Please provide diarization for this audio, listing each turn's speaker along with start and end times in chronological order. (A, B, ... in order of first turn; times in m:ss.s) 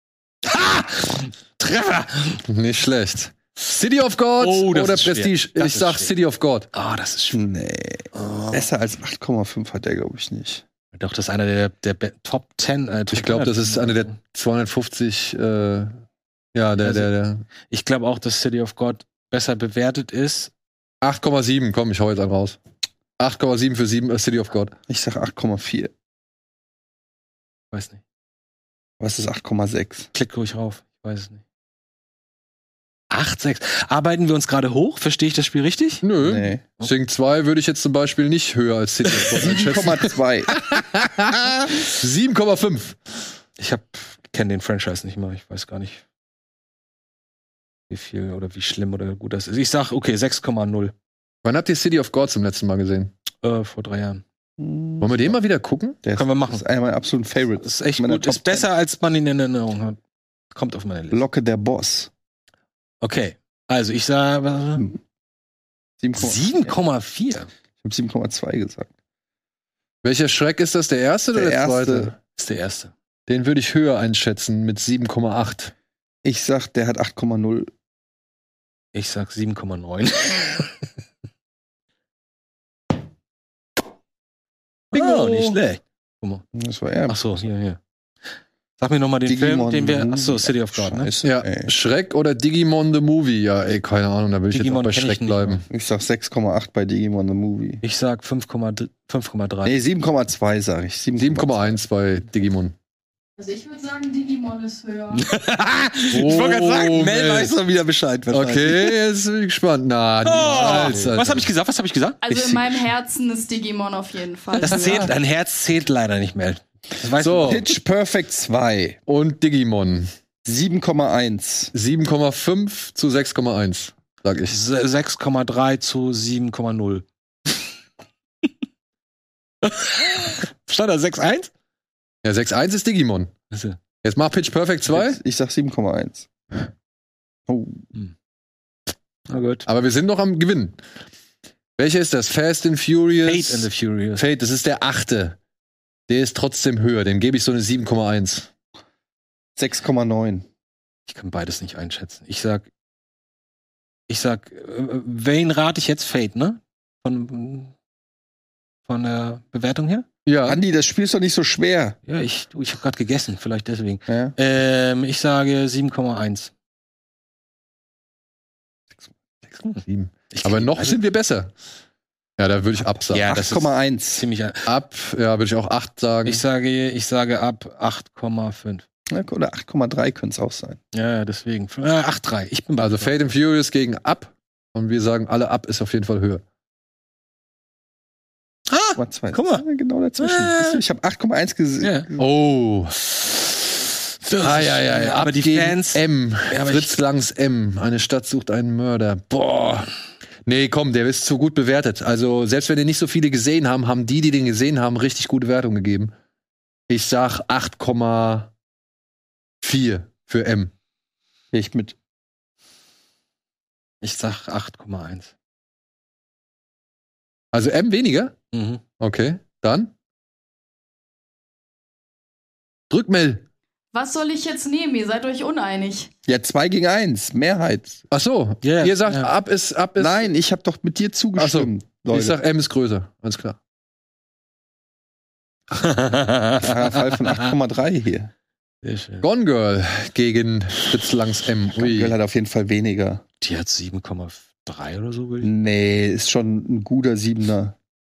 0:00.4-0:02.4 A
0:02.5-0:06.7 B
0:04.4-0:06.1 A
0:06.7-0:07.4 A
0:07.3-0:10.6 C
0:08.1-0:08.7 A
0:10.9-0:14.2 A
0:13.1-0:16.0 B
0:16.5-0:17.4 B
0:16.8-0:17.1 A
0:17.7-0:20.5 A
0:21.0-0:22.6 B
0:23.2-0:24.7 B
0:24.9-0:25.9 C
0:27.7-0:28.0 A
0:29.0-0:30.1 C
0:30.1-0:31.4 A
0:33.1-0:36.0 A
0:36.0-0:43.2 B
0:36.2-0:36.6 C
0:39.3-0:40.6 C
0:43.6-0:46.0 A
0:47.9-0:50.9 A
0:51.4-0:53.1 B
0:53.4-0:54.2 A
0:54.6-0:55.3 C
0:55.0-0:56.0 B
0:56.0-0:58.7 C
0:56.2-0:56.6 A
0:57.6-1:00.0 A
1:00.5-1:01.2 A
1:01.1-1:02.1 C
1:03.0-1:04.9 A
1:06.0-1:06.7 C
1:06.2-1:07.5 A
1:07.8-1:08.9 C
1:10.0-1:12.2 B
1:11.3-1:12.1 C
1:12.4-1:12.9 A
1:13.3-1:15.7 B
1:16.2-1:17.7 C
1:18.9-1:20.9 A
1:24.9-1:26.4 A
1:24.9-1:25.6 B
1:26.5-1:27.2 C
1:27.1-1:27.8 A
1:28.8-1:31.1 A
1:29.3-1:31.7 C
1:31.2-1:35.6 B
1:34.5-1:35.6 A
1:35.7-1:37.8 C
1:37.8-1:39.8 A
1:39.6-1:41.7 C
1:41.2-1:42.8 B
1:43.4-1:45.3 D
1:45.1-1:47.1 A
1:46.1-1:47.5 B
1:46.3-1:49.0 C
1:48.3-1:51.5 B
1:50.2-1:52.2 A
1:50.6-1:51.0 C
1:52.2-1:55.1 D
1:54.6-1:57.7 A
1:54.6-1:55.1 B
1:57.2-1:57.6 B
1:57.4-1:59.0 C
1:59.1-2:00.1 B
2:00.4-2:01.7 C
2:01.7-2:04.6 B
2:04.5-2:07.0 A
2:09.6-2:11.5 A
2:12.2-2:13.3 B
2:13.5-2:13.8 A
2:14.0-2:15.2 B
2:14.9-2:16.3 C
2:17.5-2:17.9 C
2:19.3-2:19.7 A
2:19.7-2:20.8 B
2:21.8-2:25.4 B
2:23.2-2:24.3 A
2:26.1-2:28.5 B
2:29.6-2:30.4 C
2:31.1-2:32.7 A
2:34.1-2:37.7 A
2:38.9-2:40.1 A
2:40.2-2:40.6 B
2:40.5-2:42.0 C
2:42.1-2:46.5 A
2:44.1-2:44.4 C
2:49.6-2:51.0 A
2:49.8-2:51.5 B
2:52.4-2:53.3 B
2:53.1-2:54.7 A
2:53.2-2:54.2 C
2:54.7-2:56.4 B
2:56.2-2:58.8 A
2:59.1-3:00.8 C
3:00.9-3:03.2 A
3:02.8-3:06.4 B
3:08.7-3:09.6 A
3:09.0-3:12.3 C
3:10.2-3:10.8 A
3:11.8-3:12.1 A
3:12.2-3:13.0 B
3:14.2-3:17.0 A
3:14.4-3:19.9 B
3:20.4-3:26.1 B
3:26.9-3:28.5 B
3:29.6-3:30.7 B
3:31.5-3:32.0 C
3:34.0-3:35.3 A
3:37.5-3:38.4 B
3:38.5-3:38.8 A
3:39.0-3:39.9 B
3:42.9-3:43.4 B
3:43.9-3:46.1 D
3:46.3-3:48.0 C
3:48.1-3:50.3 B
3:48.6-3:49.3 A
3:50.0-3:52.4 C
3:51.4-3:53.6 B
3:55.8-3:57.5 A
3:56.6-3:58.3 C
3:58.8-3:59.2 A
3:59.2-4:02.2 B
4:01.8-4:03.2 C
4:03.4-4:05.5 A
4:05.4-4:07.8 C